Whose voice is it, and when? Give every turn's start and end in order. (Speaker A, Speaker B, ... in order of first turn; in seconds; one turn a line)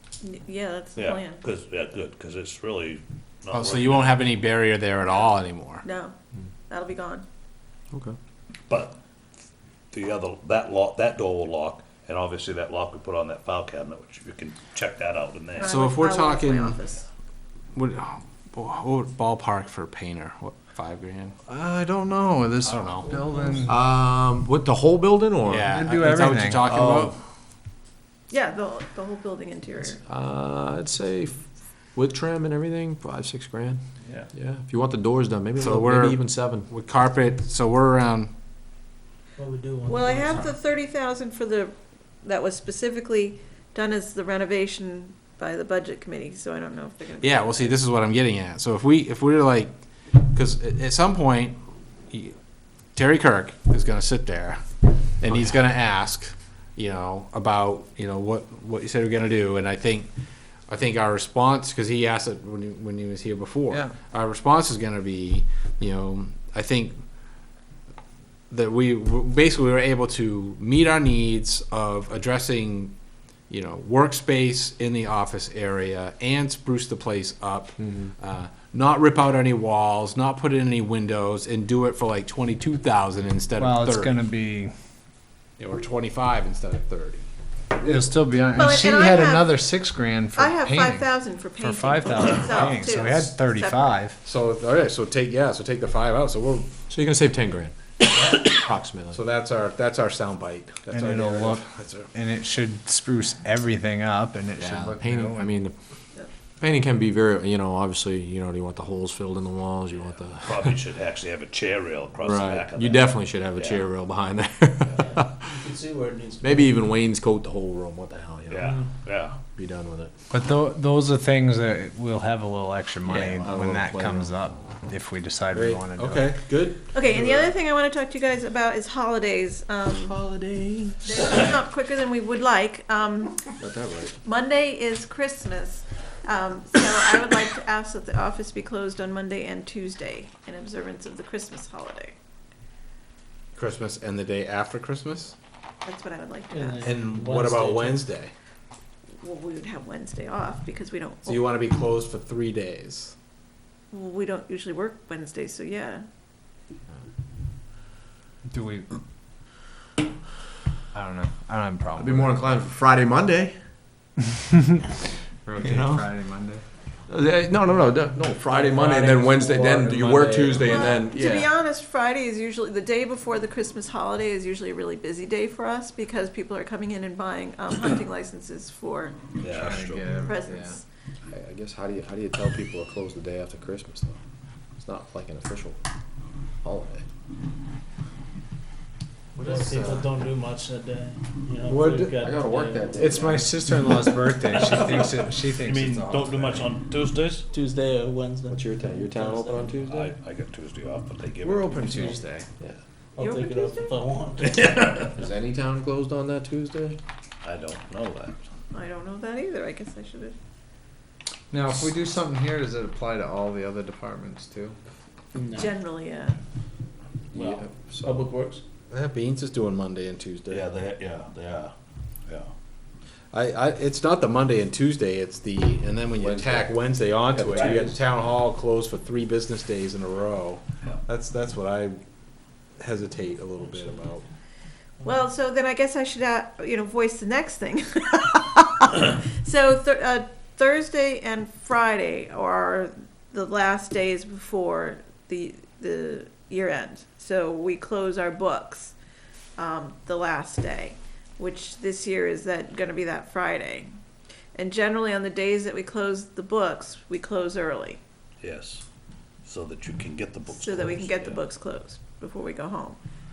Speaker A: 0.2-1.4
Speaker B: 0.9-4.2
Speaker C: 3.5-5.8
Speaker A: 5.8-6.1
Speaker A: 6.7-7.2
Speaker B: 8.7-8.9
Speaker B: 9.9-15.7
Speaker A: 15.6-17.1
Speaker C: 15.6-16.8
Speaker C: 17.7-21.4
Speaker D: 21.5-23.9
Speaker C: 22.6-23.1
Speaker E: 23.6-25.7
Speaker C: 25.4-27.1
Speaker D: 25.7-26.6
Speaker E: 26.6-27.2
Speaker A: 28.3-30.0
Speaker E: 30.0-33.8
Speaker E: 34.3-36.7
Speaker C: 35.5-38.3
Speaker F: 39.4-40.5
Speaker A: 39.9-47.8
Speaker C: 47.2-51.6
Speaker C: 52.1-52.4
Speaker C: 52.9-54.6
Speaker C: 55.2-60.1
Speaker C: 60.7-67.1
Speaker C: 68.5-72.9
Speaker C: 73.5-84.2
Speaker E: 77.8-78.1
Speaker D: 83.6-84.7
Speaker C: 85.6-87.3
Speaker D: 87.8-91.1
Speaker A: 88.5-89.6
Speaker A: 90.3-94.0
Speaker D: 91.6-94.2
Speaker C: 92.4-92.8
Speaker C: 94.2-96.7
Speaker E: 96.9-99.2
Speaker C: 99.1-102.1
Speaker D: 100.9-105.6
Speaker E: 104.6-105.7
Speaker E: 106.6-110.7
Speaker B: 110.4-113.9
Speaker E: 112.2-115.4
Speaker F: 114.9-116.7
Speaker E: 116.4-118.8
Speaker B: 118.5-119.4
Speaker F: 118.6-118.9
Speaker E: 119.5-120.1
Speaker D: 120.3-126.3
Speaker E: 123.0-124.4
Speaker C: 125.5-127.5
Speaker A: 126.9-130.2
Speaker E: 129.9-131.1
Speaker A: 131.0-133.6
Speaker E: 133.6-134.2
Speaker A: 134.2-142.2
Speaker C: 143.5-145.3
Speaker A: 145.8-146.9
Speaker F: 146.5-148.0
Speaker C: 146.8-148.3
Speaker A: 149.2-151.6
Speaker C: 151.2-153.1
Speaker A: 153.9-156.0
Speaker D: 158.5-158.9
Speaker D: 160.9-162.4
Speaker E: 162.0-163.6
Speaker D: 165.4-166.6
Speaker E: 165.6-166.1
Speaker E: 167.1-171.5
Speaker D: 168.4-170.8
Speaker A: 170.6-179.3
Speaker B: 179.4-180.2
Speaker D: 179.5-180.8
Speaker A: 180.1-180.8
Speaker E: 181.3-184.2
Speaker E: 184.8-185.8
Speaker E: 186.6-187.1
Speaker E: 189.3-190.1
Speaker F: 189.3-193.0
Speaker C: 191.7-192.1
Speaker E: 192.1-193.9
Speaker D: 192.9-196.7
Speaker B: 194.5-197.4
Speaker F: 197.5-199.8
Speaker E: 198.4-200.1
Speaker B: 199.8-202.2
Speaker E: 201.4-202.8
Speaker F: 203.2-204.8
Speaker A: 203.2-204.1
Speaker B: 204.4-205.1
Speaker E: 205.1-207.0
Speaker B: 207.4-208.4
Speaker A: 208.7-210.3
Speaker D: 211.5-214.8
Speaker F: 215.3-215.7
Speaker A: 215.5-216.4
Speaker E: 217.3-218.3
Speaker F: 217.3-218.6
Speaker C: 218.9-220.7
Speaker B: 220.5-221.7
Speaker C: 223.3-232.0
Speaker E: 226.2-226.8
Speaker E: 227.3-228.0
Speaker B: 227.5-227.8
Speaker C: 232.8-234.2
Speaker A: 235.0-248.9
Speaker A: 249.6-254.0
Speaker A: 254.5-258.0
Speaker B: 258.4-258.8
Speaker B: 259.4-261.4
Speaker A: 260.5-263.0